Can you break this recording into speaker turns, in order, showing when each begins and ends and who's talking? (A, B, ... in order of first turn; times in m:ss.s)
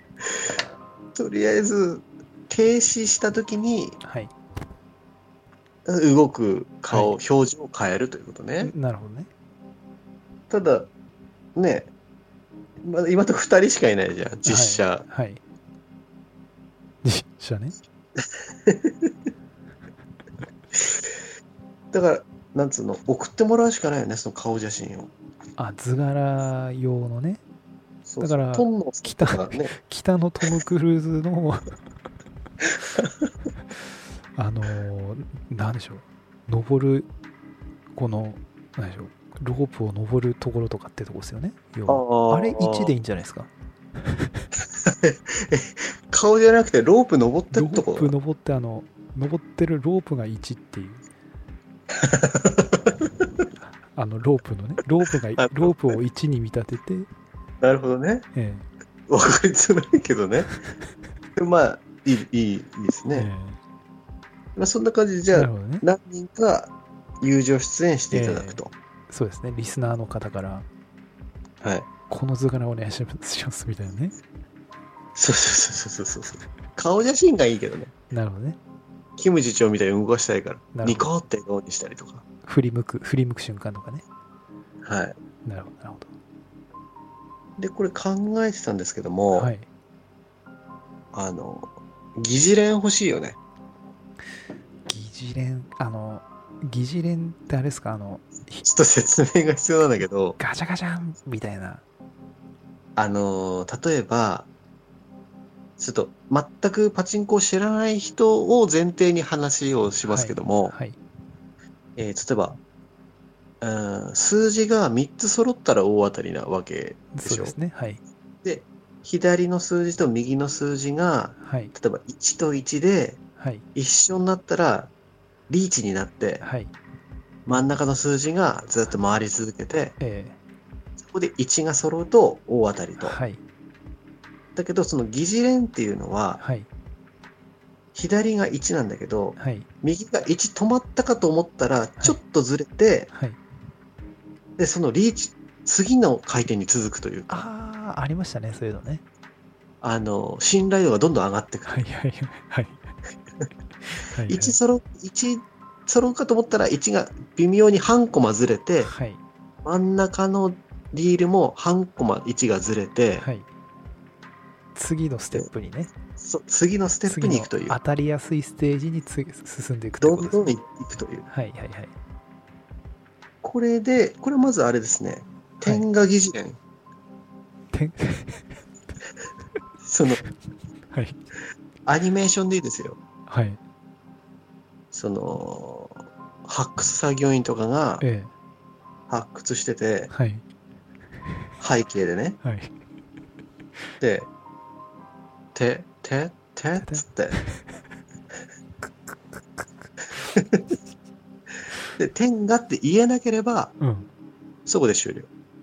0:01.2-0:04.0 A
0:04.0-0:04.3 B
0:05.9-0:08.7 A
0:08.6-0:09.3 B
0:10.5-0:10.9 A
0:11.6-0:11.9 A
0:12.8-0:15.0 A
0:14.4-0:15.4 B
0:17.0-0:17.8 B
0:18.2-0:19.1 A
0:21.9-0:25.1 A
0:25.6-0:27.4 B
0:28.1-0:29.7 A
0:28.2-0:31.7 B
0:32.8-0:33.3 A
0:34.4-0:37.1 B
0:38.0-0:43.5 B
0:41.9-0:42.9 A
0:44.6-0:48.1 A
0:47.5-0:51.0 B
0:51.9-0:53.2 A
0:53.9-0:57.1 B
0:55.4-0:55.8 A
0:57.6-0:58.3 A
0:58.4-0:58.7 B
0:59.1-1:00.6 A
1:01.4-1:03.3 A
1:03.1-1:03.6 B
1:04.6-1:08.7 A
1:05.3-1:05.9 B
1:08.1-1:10.7 B
1:11.6-1:11.9 A
1:12.1-1:14.2 B
1:15.2-1:17.9 A
1:18.1-1:18.6 B
1:19.2-1:22.2 A
1:20.7-1:21.1 B
1:22.4-1:24.0 B
1:24.8-1:25.2 A
1:25.4-1:26.1 B
1:27.6-1:29.5 A
1:29.3-1:29.7 B
1:31.1-1:33.4 A
1:34.9-1:38.7 B
1:38.6-1:40.4 A
1:40.4-1:41.8 B
1:43.0-1:44.5 A
1:45.8-1:50.7 A
1:50.1-1:51.0 B
1:52.0-1:52.6 A
1:53.6-1:57.6 A
1:57.1-1:58.0 B
1:58.4-2:03.2 A
2:01.4-2:01.7 B
2:03.4-2:03.6 B
2:03.8-2:04.9 A
2:05.5-2:06.4 A
2:06.4-2:06.7 B
2:07.5-2:10.0 A
2:10.0-2:10.4 B
2:11.0-2:13.2 A
2:13.0-2:13.4 B
2:14.6-2:16.4 A
2:16.4-2:16.7 B
2:18.0-2:23.1 A
2:19.4-2:19.7 B
2:23.1-2:23.4 B
2:24.6-2:27.4 A
2:27.3-2:29.0 B
2:29.8-2:31.7 A
2:31.7-2:32.8 B
2:33.9-2:34.6 B
2:34.3-2:38.9 A
2:38.8-2:39.2 B
2:39.6-2:43.3 A
2:43.2-2:43.5 B
2:44.8-2:45.9 B
2:46.2-2:47.8 A
2:47.1-2:50.5 B
2:50.0-2:51.3 A
2:51.3-2:51.9 B
2:53.4-2:56.6 A
2:55.6-2:55.9 B
2:57.7-2:58.5 B
2:59.8-3:00.2 A
3:00.9-3:01.2 B
3:01.9-3:03.0 A
3:03.3-3:03.6 B
3:04.9-3:08.0 A
3:08.0-3:08.3 B
3:09.1-3:10.1 A
3:10.1-3:10.4 B
3:11.6-3:12.4 A
3:12.4-3:12.7 B
3:14.0-3:14.3 A
3:15.6-3:17.4 A
3:16.8-3:17.6 B
3:20.4-3:20.6 A
3:22.0-3:23.7 A
3:23.8-3:24.1 B
3:24.7-3:25.3 A